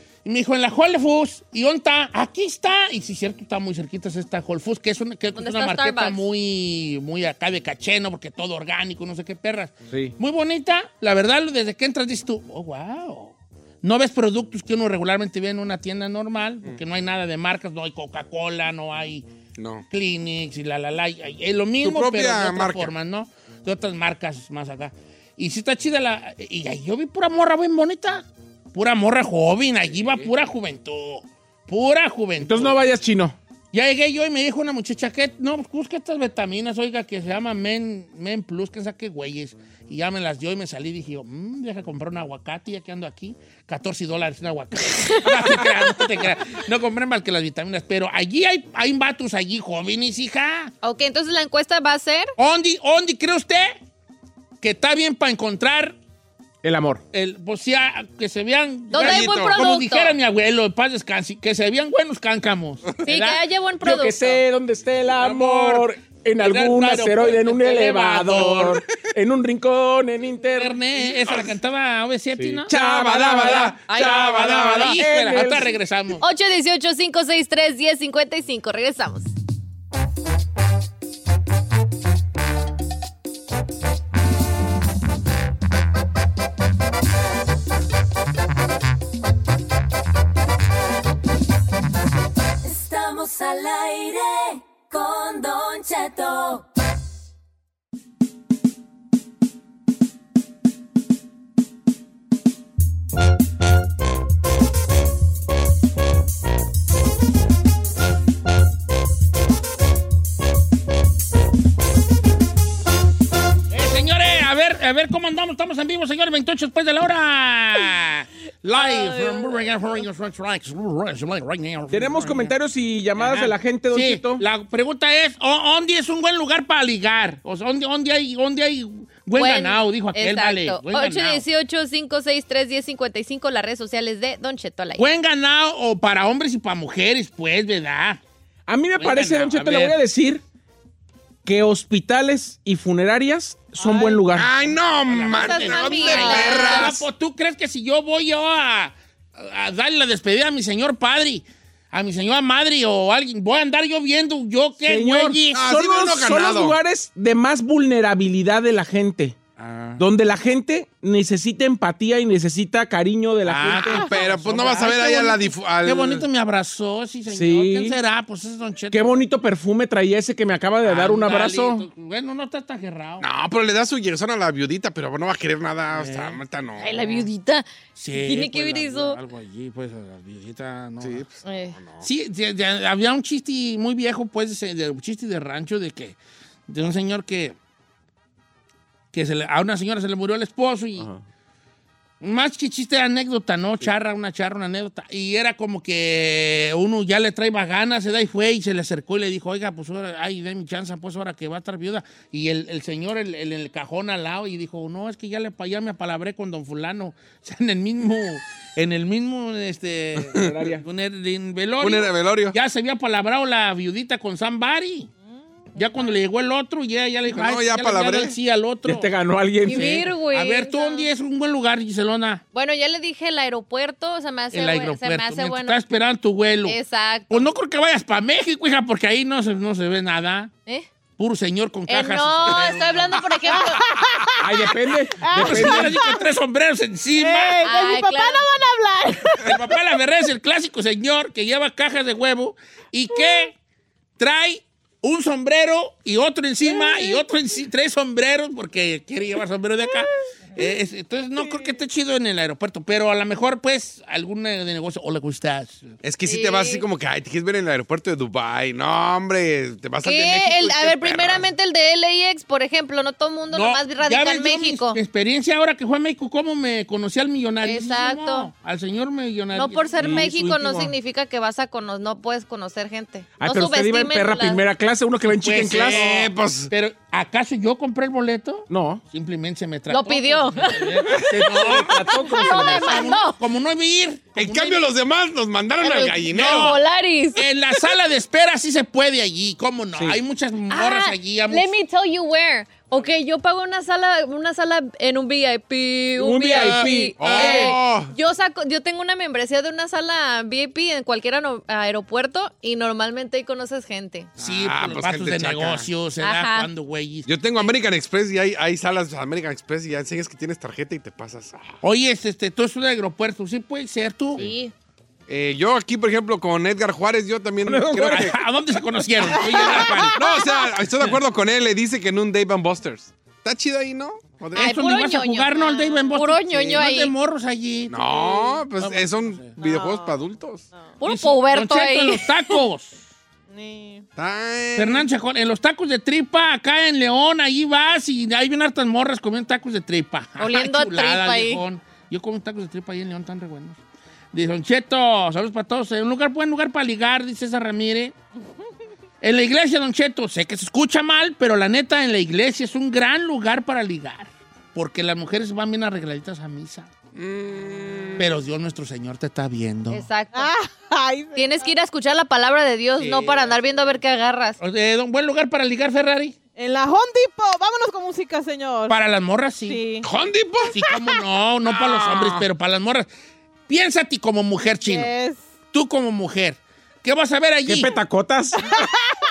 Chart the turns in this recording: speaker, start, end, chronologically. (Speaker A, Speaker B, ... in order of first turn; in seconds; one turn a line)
Speaker A: 0.2-19.2
Speaker B: 5.4-6.2
Speaker C: 19.6-19.9
Speaker A: 19.9-32.8
Speaker C: 21.8-22.9
Speaker D: 32.4-33.4
Speaker A: 33.7-50.7
Speaker B: 50.8-52.3
Speaker A: 52.4-53.8
Speaker A: 54.6-56.0
Speaker D: 56.6-57.0
Speaker A: 57.1-63.4
Speaker B: 58.9-60.2
Speaker C: 59.0-59.8
Speaker B: 63.0-64.4
Speaker D: 63.8-70.8
Speaker A: 65.2-68.8
Speaker A: 70.5-72.7
Speaker D: 72.4-75.7
Speaker C: 72.7-75.0
Speaker A: 74.5-76.2
Speaker B: 76.2-79.3
Speaker E: 92.6-96.6
Speaker A: 113.7-122.5
Speaker B: 118.8-119.5
Speaker D: 121.9-124.4
Speaker A: 123.2-131.4
Speaker B: 129.3-135.0
Speaker A: 135.0-138.2
Speaker D: 138.7-140.4
Speaker A: 138.9-140.0
Speaker D: 141.4-144.5
Speaker F: 143.8-144.3
Speaker C: 144.3-147.0
Speaker A: 144.6-155.6
Speaker B: 145.3-146.9
Speaker D: 154.8-159.4
Speaker C: 155.5-156.8
Speaker A: 159.6-160.0
Speaker D: 160.0-164.1
Speaker A: 163.4-169.2
Speaker C: 163.9-166.2
Speaker D: 167.3-168.0
Speaker D: 168.9-171.9
Speaker A: 170.8-173.3
Speaker C: 173.2-177.2
Speaker A: 175.9-176.4
Speaker B: 176.8-179.2
Speaker A: 177.9-181.2
Speaker C: 181.0-182.1
Speaker B: 181.4-181.8
Speaker A: 182.0-186.2
Speaker A: 186.7-187.6
Speaker A: 189.1-191.1
Speaker D: 191.0-191.2
Speaker A: 192.2-215.1
Speaker D: 210.4-210.8
Speaker C: 211.8-212.6
Speaker A: 215.7-219.1
Speaker C: 217.3-218.3
Speaker D: 218.8-220.0
Speaker B: 219.6-221.1
Speaker A: 219.6-222.4
Speaker B: 222.5-225.8
Speaker A: 224.5-226.8
Speaker B: 226.7-227.5
Speaker A: 227.3-230.5
Speaker A: 231.2-233.2
Speaker B: 231.9-233.8
Speaker F: 233.8-234.5
Speaker D: 234.4-236.0
Speaker F: 235.2-236.2
Speaker A: 235.3-237.6
Speaker F: 237.2-239.6
Speaker B: 237.6-238.4
Speaker A: 239.4-243.5
Speaker A: 244.2-255.9
Speaker C: 256.0-261.5
Speaker B: 256.2-256.8
Speaker B: 260.0-265.0
Speaker A: 263.5-270.9
Speaker B: 267.6-268.5
Speaker B: 269.5-274.6
Speaker D: 270.0-270.5
Speaker D: 273.4-276.0
Speaker A: 275.2-284.9
Speaker C: 275.6-276.7
Speaker D: 278.7-279.0
Speaker B: 279.9-283.4
Speaker D: 281.3-283.1
Speaker C: 284.3-286.8
Speaker B: 285.8-287.4
Speaker A: 286.2-286.8
Speaker A: 287.3-291.7
Speaker B: 290.7-304.3
Speaker D: 296.2-297.7
Speaker C: 296.6-298.1
Speaker A: 297.2-297.7
Speaker C: 304.4-305.9
Speaker A: 304.4-307.7
Speaker B: 306.2-306.7
Speaker C: 307.2-311.7
Speaker A: 311.8-314.4
Speaker B: 314.4-314.7
Speaker C: 315.3-318.4
Speaker D: 317.6-318.3
Speaker A: 318.0-320.2
Speaker C: 320.1-324.8
Speaker B: 320.2-320.5
Speaker A: 324.5-329.6
Speaker B: 324.5-327.1
Speaker C: 327.9-330.6
Speaker F: 329.6-330.2
Speaker B: 331.0-332.5
Speaker A: 331.0-333.0
Speaker F: 333.5-334.0
Speaker C: 334.1-335.1
Speaker A: 334.8-343.8
Speaker B: 340.4-341.6
Speaker A: 344.3-348.1
Speaker A: 349.2-356.9
Speaker C: 357.1-358.3
Speaker A: 358.2-360.0
Speaker B: 359.9-360.5
Speaker F: 360.3-361.7
Speaker B: 361.3-364.6
Speaker A: 363.0-363.6
Speaker A: 364.6-366.4
Speaker F: 366.6-368.9
Speaker A: 368.9-369.8
Speaker F: 369.6-370.1
Speaker C: 370.0-370.8
Speaker A: 370.7-373.1
Speaker C: 371.7-372.4
Speaker A: 373.7-375.1
Speaker F: 374.9-375.4
Speaker A: 375.7-377.9
Speaker D: 377.6-378.6
Speaker F: 378.6-378.9